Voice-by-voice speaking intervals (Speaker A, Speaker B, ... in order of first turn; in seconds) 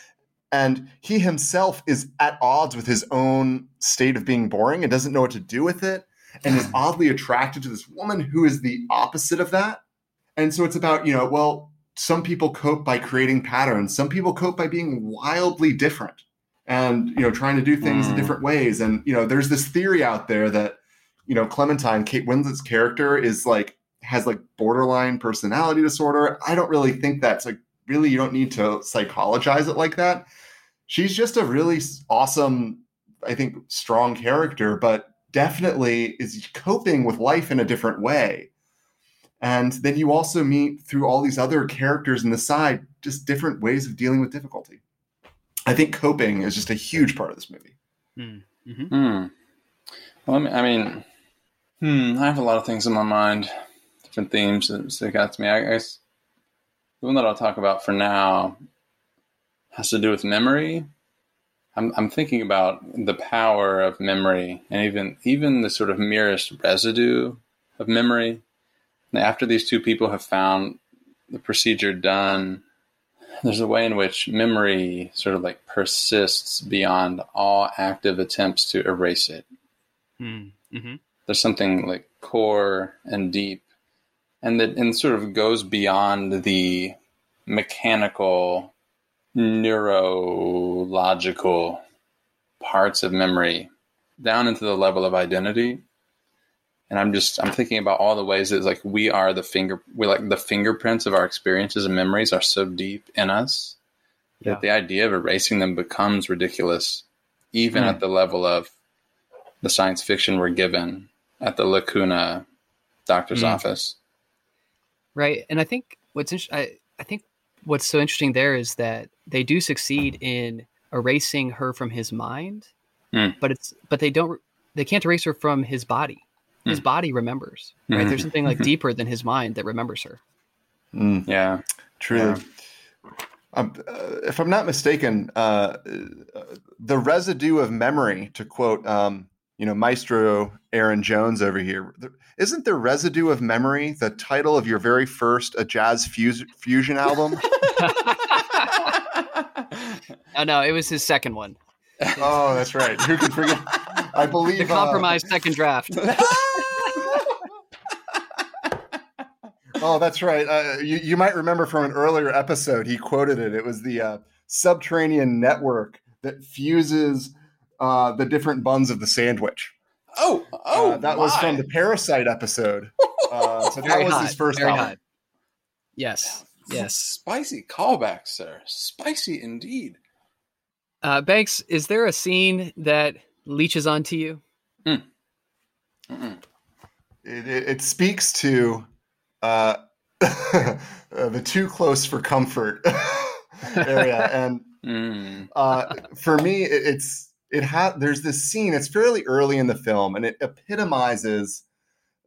Speaker A: 0.5-9.8, 10.4-30.3, 30.9-38.5, 39.4-44.8, 45.7-47.7, 130.9-131.3, 132.0-132.4, 133.5-147.5, 152.2-155.2, 159.8-169.7, 170.7-175.0, 187.2-188.9, 189.4-194.7, 195.5-201.6
Speaker B: 17.8-18.4, 48.9-49.3, 50.3-51.0, 51.8-53.5, 54.1-56.0, 57.0-58.6, 59.7-60.9, 61.8-68.4, 69.1-72.6, 73.4-79.5, 81.3-83.6, 84.4-87.0, 87.5-88.7, 89.3-91.8, 92.6-95.8, 96.9-103.8, 104.4-108.7, 109.6-112.5, 113.1-114.0, 123.1-123.4, 127.9-128.7, 131.3-132.4, 149.6-150.0, 156.0-157.3, 170.1-171.6, 173.2-173.7, 176.4-180.0, 186.1-186.4, 194.8-195.5
Speaker C: 48.2-48.9, 80.2-81.0, 107.7-108.0, 113.3-113.6, 115.2-122.7, 123.4-130.2, 147.6-149.0, 150.3-151.6, 154.6-157.3, 173.7-175.0, 176.0-177.2, 181.0-184.4